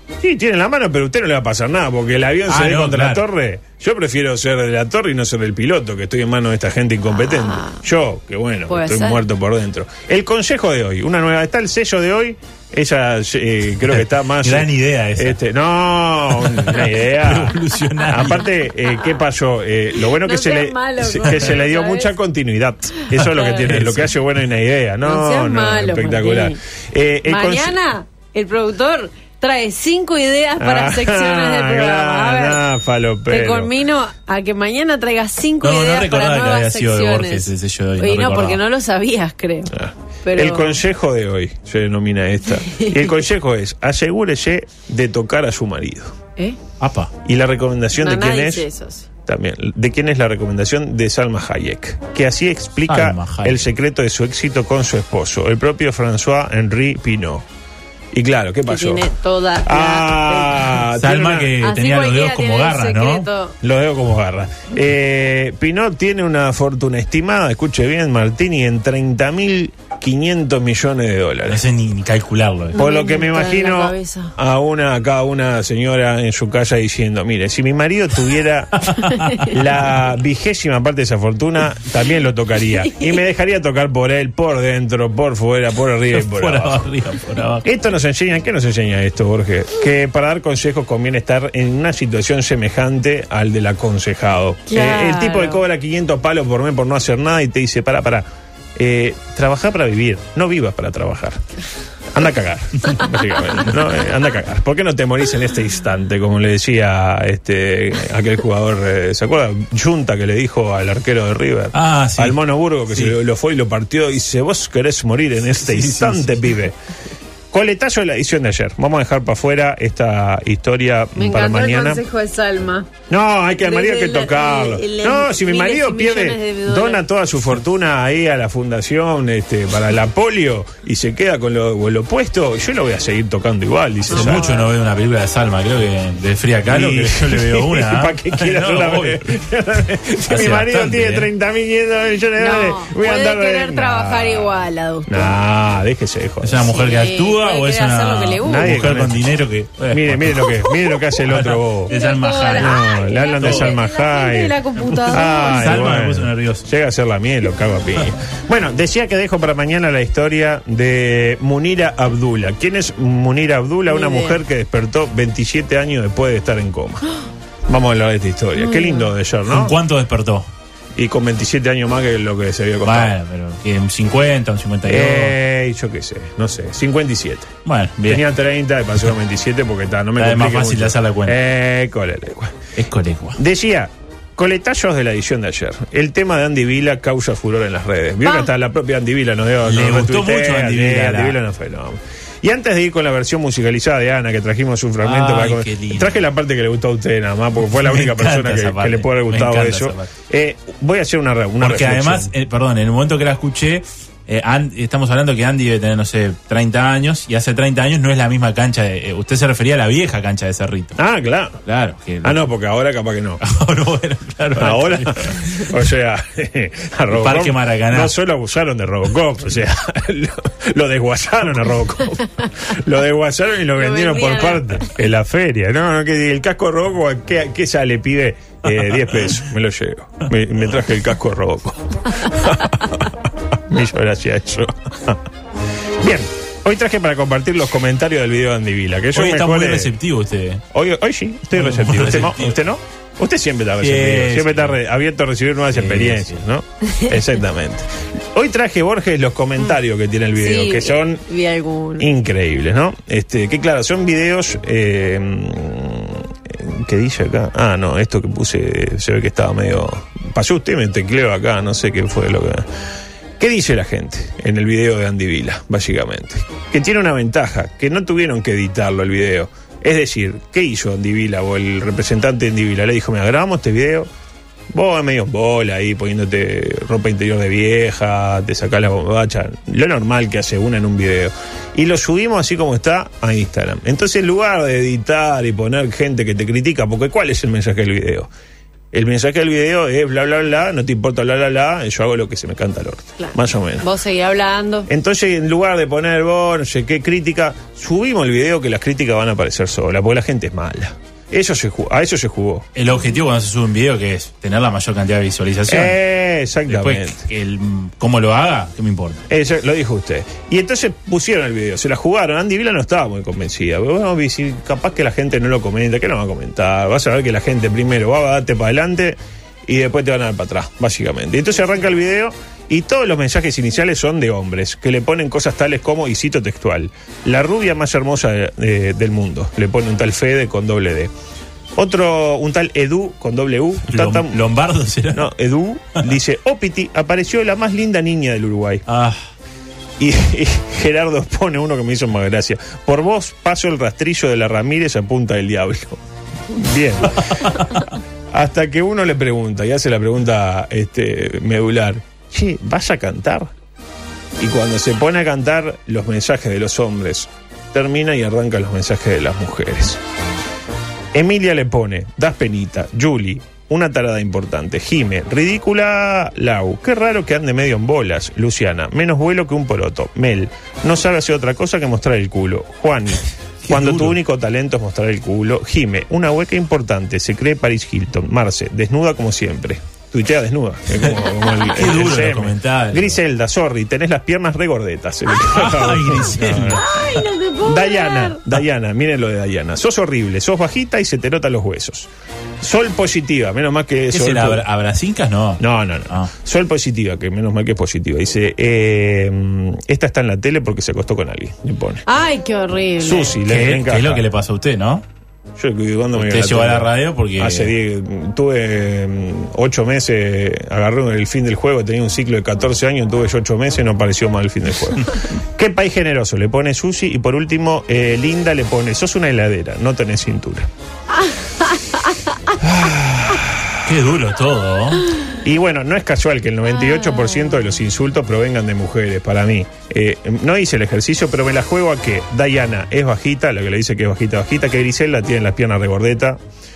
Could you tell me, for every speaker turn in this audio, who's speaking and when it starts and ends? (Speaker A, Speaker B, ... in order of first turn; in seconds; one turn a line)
Speaker A: 0.2-27.8
Speaker B: 2.5-3.2
Speaker C: 7.1-7.8
Speaker C: 8.7-9.2
Speaker B: 13.9-15.4
Speaker B: 16.4-18.5
Speaker C: 20.1-22.1
Speaker B: 23.1-24.1
Speaker C: 25.0-26.6
Speaker C: 27.3-32.6
Speaker A: 30.6-33.7
Speaker C: 33.3-39.7
Speaker B: 35.6-38.6
Speaker A: 39.7-46.1
Speaker C: 40.2-40.8
Speaker C: 42.6-43.1
Speaker B: 46.8-47.1
Speaker A: 47.2-48.6
Speaker C: 48.0-49.0
Speaker A: 49.2-57.4
Speaker B: 52.9-53.7
Speaker A: 58.1-59.1
Speaker C: 58.7-60.8
Speaker A: 59.6-61.5
Speaker B: 61.0-63.3
Speaker C: 61.6-63.5
Speaker A: 63.6-71.6
Speaker B: 71.5-72.8
Speaker C: 72.7-74.3
Speaker A: 72.7-78.9
Speaker B: 78.8-79.4
Speaker C: 79.0-79.5
Speaker A: 79.5-86.9
Speaker C: 82.8-83.2
Speaker B: 86.1-87.7
Speaker A: 87.6-101.4
Speaker C: 94.7-95.6
Speaker A: 102.1-116.7
Speaker B: 111.7-112.4
Speaker B: 112.9-113.1
Speaker B: 115.6-116.5
Speaker A: 117.5-122.0
Speaker C: 121.2-122.9
Speaker A: 123.1-134.5
Speaker C: 123.6-127.0
Speaker C: 134.1-134.7
Speaker B: 134.1-139.3
Speaker A: 136.7-146.8
Speaker B: 140.2-141.3
Speaker C: 142.4-145.3
Speaker B: 146.4-150.6
Speaker C: 146.7-148.8
Speaker A: 148.4-149.3
Speaker A: 149.9-151.9
Speaker B: 151.3-152.8
Speaker C: 151.9-155.8
Speaker A: 152.5-154.6
Speaker B: 153.4-153.8
Speaker B: 154.8-156.7
Speaker A: 155.1-167.0
Speaker C: 163.9-164.4
Speaker A: 167.7-169.7
Speaker C: 168.6-169.1
Speaker B: 169.5-170.5
Speaker A: 170.9-173.1
Speaker B: 172.8-175.3
Speaker A: 174.8-177.5
Speaker B: 177.7-178.2
Speaker A: 178.1-182.6
Speaker B: 180.2-181.3
Speaker B: 182.8-183.4
Speaker A: 183.4-202.3
Speaker C: 188.2-188.5
Speaker B: 189.7-191.4
Speaker B: 195.0-196.2
Speaker B: 197.8-200.1
Speaker B: 201.6-210.9
Speaker A: 211.0-211.6
Speaker B: 211.7-212.5
Speaker A: 212.2-213.4
Speaker B: 213.4-215.7
Speaker A: 214.6-235.2
Speaker B: 217.1-218.1
Speaker C: 223.8-224.9
Speaker A: 236.0-239.9
Speaker B: 239.1-240.6
Speaker A: 240.7-251.2
Speaker B: 241.5-242.5
Speaker B: 243.8-244.8
Speaker B: 245.7-246.4
Speaker C: 250.4-252.1
Speaker A: 252.0-262.6
Speaker A: 263.4-274.1
Speaker A: 274.7-288.3
Speaker A: 288.9-293.9
Speaker C: 293.2-294.9
Speaker A: 294.9-302.7
Speaker B: 302.7-306.0
Speaker A: 305.7-307.2
Speaker B: 306.7-309.2
Speaker A: 309.3-331.1
Speaker A: 331.8-334.4
Speaker B: 333.9-335.3
Speaker A: 335.1-338.8
Speaker B: 338.9-339.2
Speaker A: 340.0-347.6
Speaker A: 348.3-353.5
Speaker A: 354.4-360.0
Speaker A: 361.1-386.9
Speaker B: 373.6-374.1
Speaker B: 381.6-383.2
Speaker B: 385.4-386.9
Speaker C: 386.6-388.4
Speaker A: 387.6-392.1
Speaker A: 392.6-394.6
Speaker B: 394.1-396.3
Speaker A: 395.6-402.0
Speaker C: 402.1-403.4
Speaker A: 403.0-404.2
Speaker B: 403.4-405.0
Speaker A: 405.6-420.7
Speaker B: 406.1-407.7
Speaker C: 421.2-422.1
Speaker A: 422.6-423.7
Speaker B: 423.8-425.1
Speaker A: 425.4-436.4
Speaker C: 426.7-427.6